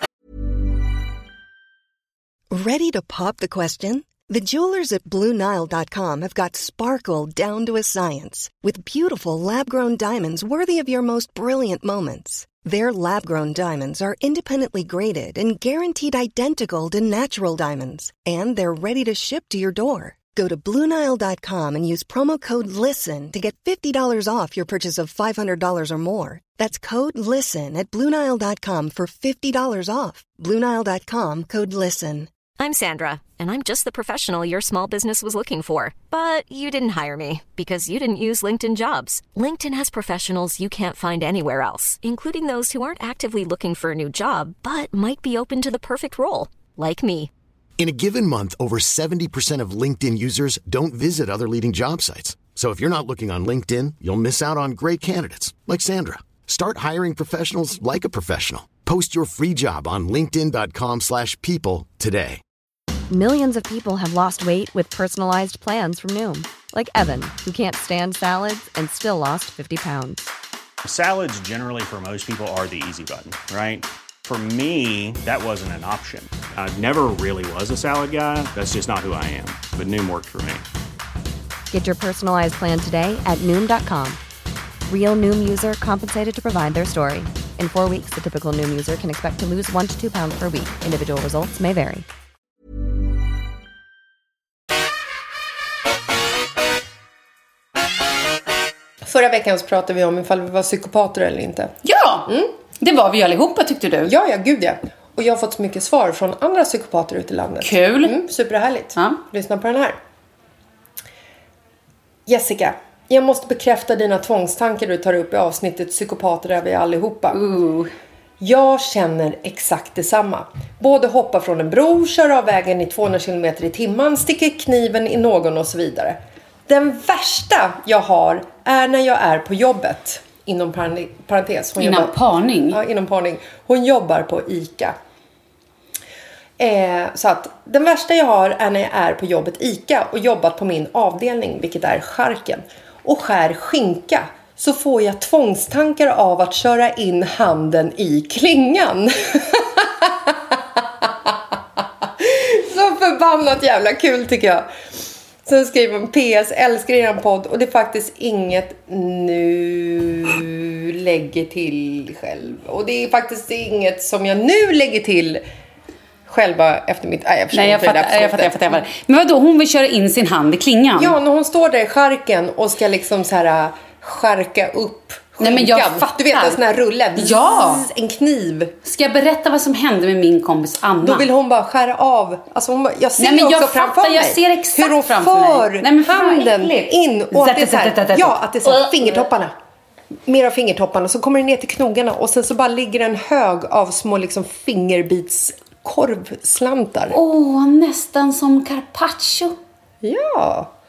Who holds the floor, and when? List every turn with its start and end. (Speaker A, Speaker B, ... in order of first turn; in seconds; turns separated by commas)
Speaker A: 2.5-32.3, Speaker B: 32.6-47.3, Speaker C: 47.8-62.4, Speaker D: 63.1-70.3, Speaker E: 70.8-80.7, Speaker D: 81.7-84.2, Speaker D: 84.9-92.1, Speaker F: 99.0-101.7, Speaker G: 101.8-104.1, Speaker F: 104.0-110.0, Speaker G: 107.6-108.2, Speaker G: 109.0-109.2, Speaker F: 112.3-117.4, Speaker G: 117.3-117.9, Speaker F: 118.4-134.9, Speaker G: 131.8-132.8, Speaker F: 136.6-154.7, Speaker F: 155.4-165.4, Speaker F: 166.3-168.9, Speaker G: 167.5-171.2, Speaker F: 171.0-178.7, Speaker G: 175.4-176.6, Speaker G: 177.2-177.9, Speaker G: 178.8-181.3, Speaker F: 181.0-189.5, Speaker G: 183.2-189.3, Speaker F: 190.3-197.2, Speaker G: 197.1-199.6, Speaker F: 200.0-200.7